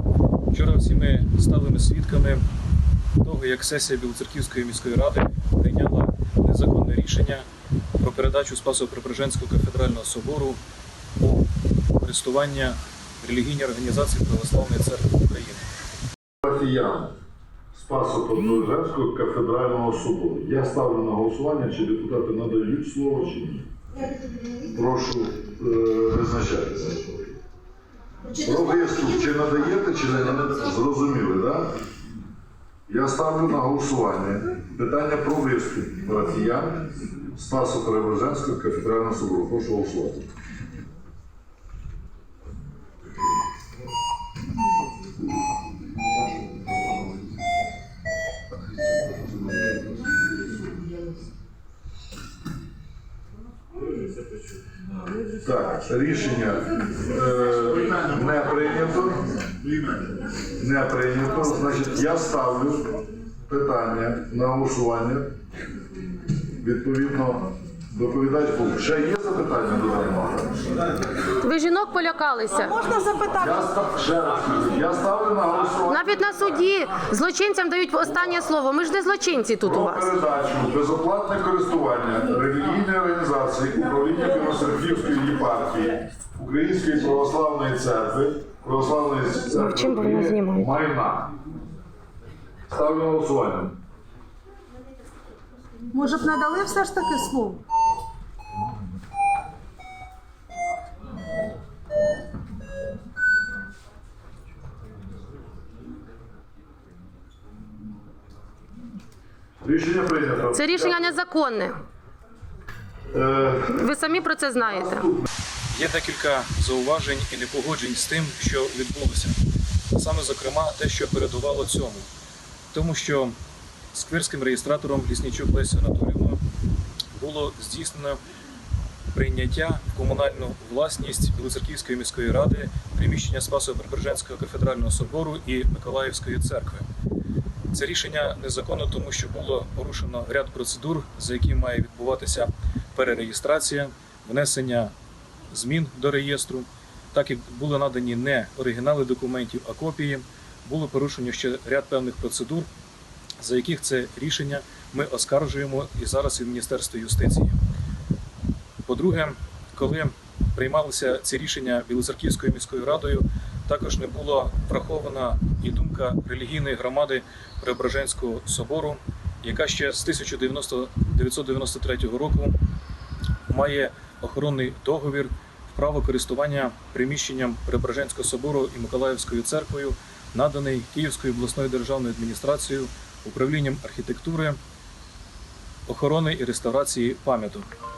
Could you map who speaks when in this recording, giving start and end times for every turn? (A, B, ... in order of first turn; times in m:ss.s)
0:00.5-0:02.4 A
0:03.2-0:07.5 A
0:08.0-0:10.6 A
0:11.2-0:15.7 A
0:16.4-0:17.1 B
0:17.7-0:23.7 B
0:24.7-0:27.3 B
0:28.3-0:31.7 B
0:32.9-0:40.3 B
0:55.4-0:59.3 B
1:00.5-1:02.9 B
1:03.5-1:05.3 B
1:06.6-1:10.7 B
1:11.4-1:12.8 C
1:12.7-1:13.4 D
1:13.4-1:16.2 B
1:15.9-1:20.1 C
1:19.6-1:31.3 B
1:29.5-1:30.7 C
1:32.7-1:33.8 B
1:35.9-1:37.6 D
1:49.6-1:51.1 B
1:50.5-1:51.8 C
1:53.1-1:53.9 B
1:53.7-1:55.1 C
1:54.6-1:55.3 B
1:55.7-1:59.4 A
1:59.9-2:02.1 A
2:02.7-2:03.4 A
2:03.9-2:06.4 A
2:07.1-2:08.2 A
2:09.1-2:16.9 A
2:17.7-2:24.9 A
2:25.5-2:32.7 A
2:33.4-2:37.6 A
2:38.9-2:52.6 A
2:53.5-3:04.6 A
3:05.9-3:07.7 A